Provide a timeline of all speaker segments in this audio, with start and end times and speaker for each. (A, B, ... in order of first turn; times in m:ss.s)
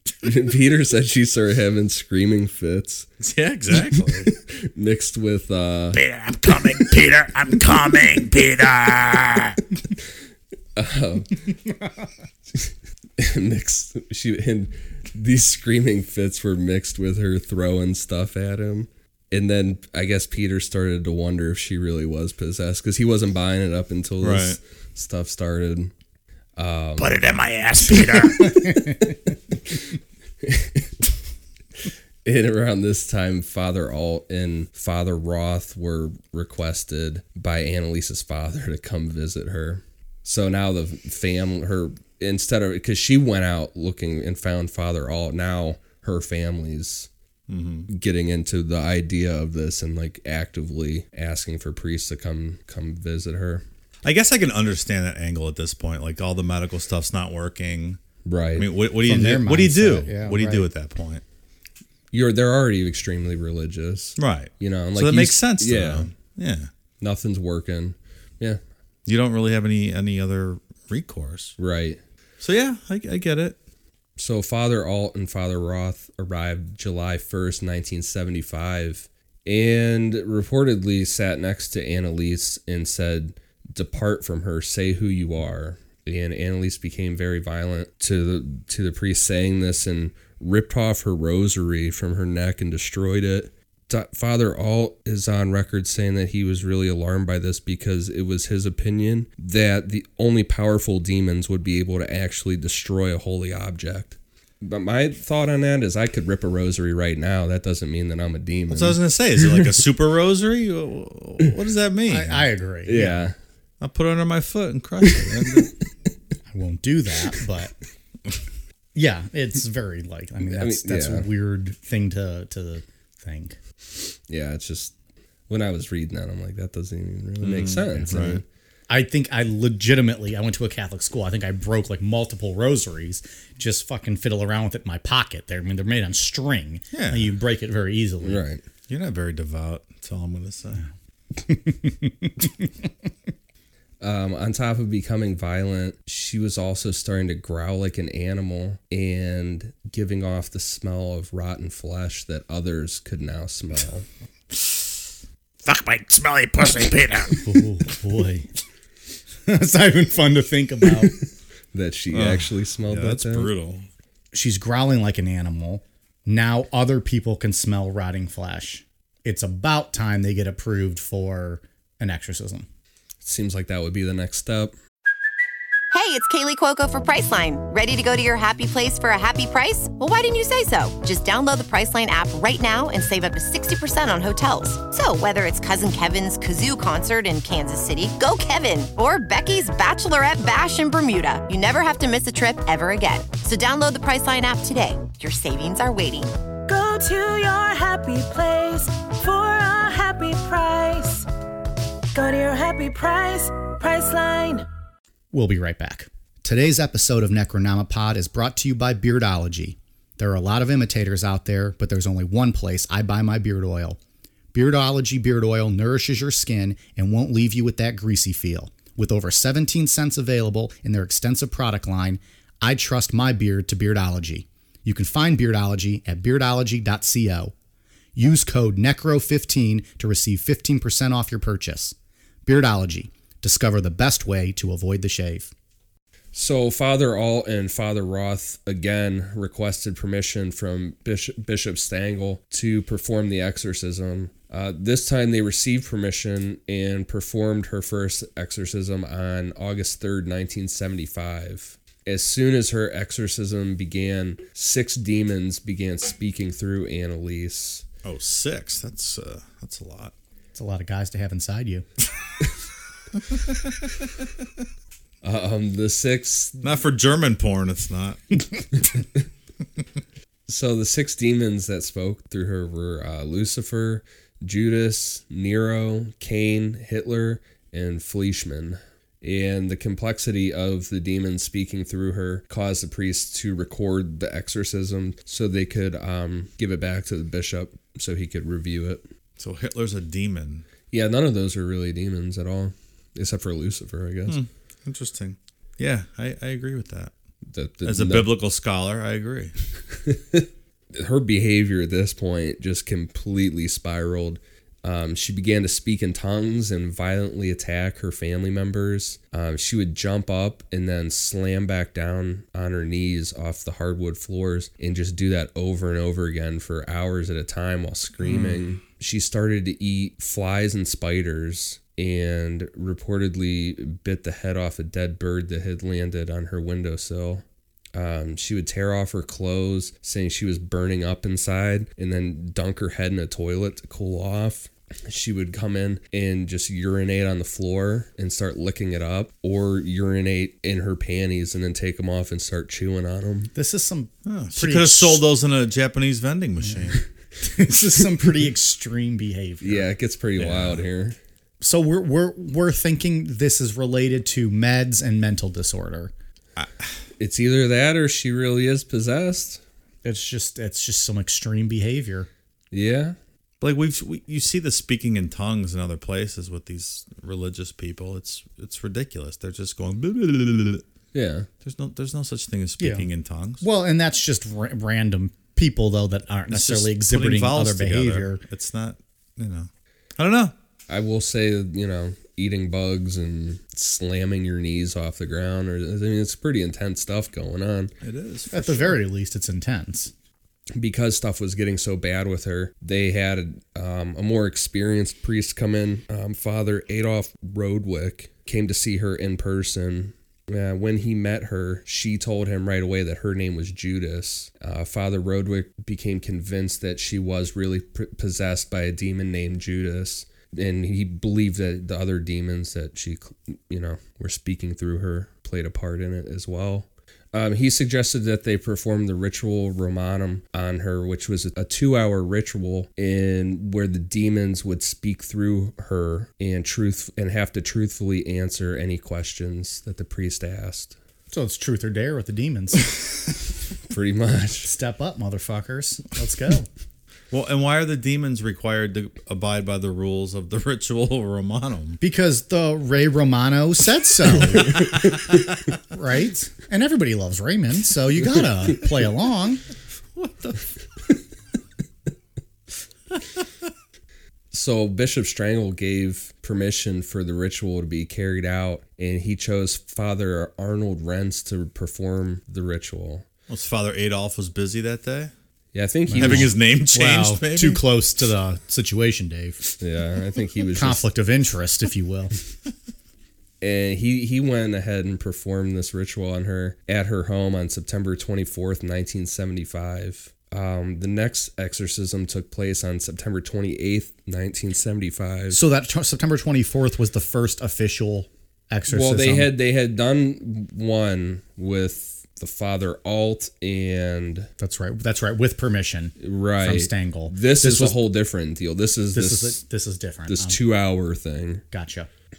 0:00.2-0:03.1 A
0:03.2-0:04.3 B
0:04.6-0:06.0 A
0:05.9-0:09.6 C
0:10.8-0:11.4 A
0:12.6-0:25.9 A
0:24.2-0:24.6 B
0:26.6-0:27.2 A
0:27.0-0:28.7 C
0:28.6-0:29.0 D
0:30.4-0:30.9 A
0:32.2-0:47.1 A
0:47.5-0:47.9 B
0:47.9-0:53.6 A
0:54.0-0:58.0 B
0:58.2-0:58.7 A
0:58.5-1:01.2 B
0:59.0-1:00.7 D
1:02.1-1:06.1 A
1:04.2-1:06.7 B
1:07.0-1:08.6 A
1:09.0-1:11.5 B
1:11.6-1:12.0 A
1:12.4-1:13.6 B
1:14.2-1:49.6 A
1:48.7-1:52.5 B
1:52.1-1:53.2 D
1:52.9-1:53.4 A
1:53.8-1:55.7 B
1:55.1-1:55.7 A
1:56.5-1:57.7 D
1:58.9-2:03.6 D
2:00.5-2:01.3 A
2:04.3-2:04.9 A
2:05.5-2:08.4 A
2:07.4-2:08.4 B
2:08.9-2:18.4 D
2:16.9-2:17.3 B
2:18.2-2:18.6 A
2:18.9-2:20.9 B
2:21.5-2:22.3 D
2:24.0-2:34.0 A
2:35.6-2:37.5 C
2:37.4-2:38.5 D
2:39.5-2:41.1 D
2:41.7-2:43.5 A
2:42.1-2:43.9 B
2:44.3-2:52.7 D
2:53.2-2:54.7 A
2:55.9-3:16.3 E
3:16.7-3:21.2 F
3:22.1-3:24.6 F
3:25.3-3:34.0 D
3:34.5-3:47.5 D
3:48.2-3:51.9 D
3:52.4-3:55.5 D
3:56.3-4:17.9 A
4:18.0-4:20.1 B
4:20.5-4:21.8 D
4:23.3-4:23.9 B
4:25.2-4:26.6 A
4:26.6-4:28.6 B
4:30.5-4:49.0 A
4:49.4-4:50.6 B
4:50.9-4:54.4 A
4:54.3-4:57.1 B
4:57.5-4:58.3 A
4:57.8-4:59.5 B
5:00.1-5:43.5 A
5:18.2-5:18.6 B
5:43.5-5:45.2 D
5:44.2-5:47.0 B
5:47.4-5:49.9 D
5:49.6-5:51.2 A
5:50.4-5:50.8 B
5:51.6-5:56.1 D
5:56.6-5:57.0 B
5:57.2-5:59.6 A
6:00.0-6:02.3 D
6:02.7-6:03.2 A
6:03.6-6:10.8 B
6:11.1-6:11.5 A
6:11.6-6:13.6 B
6:12.8-6:13.1 D
6:13.6-6:18.4 D
6:16.5-6:20.5 B
6:20.9-6:27.9 A
6:28.0-6:29.0 B
6:28.5-6:30.1 D
6:30.8-7:11.0 A
7:11.3-7:12.9 D
7:13.9-7:14.7 A
7:14.6-7:16.7 D
7:17.3-7:22.0 B
7:22.0-7:24.9 D
7:25.9-7:29.6 D
7:30.1-7:30.7 B
7:34.5-7:43.2 A
7:43.5-7:45.3 B
7:45.7-7:46.5 A
7:46.1-7:49.7 D
7:46.2-7:47.8 B
7:49.8-7:51.1 A
7:50.8-7:52.4 D
7:53.6-8:05.6 A
8:05.5-8:09.5 D
8:08.9-8:14.5 A
8:14.6-8:18.0 D
8:16.2-8:19.6 A
8:19.1-8:20.6 D
8:20.3-8:21.6 A
8:21.7-8:22.1 D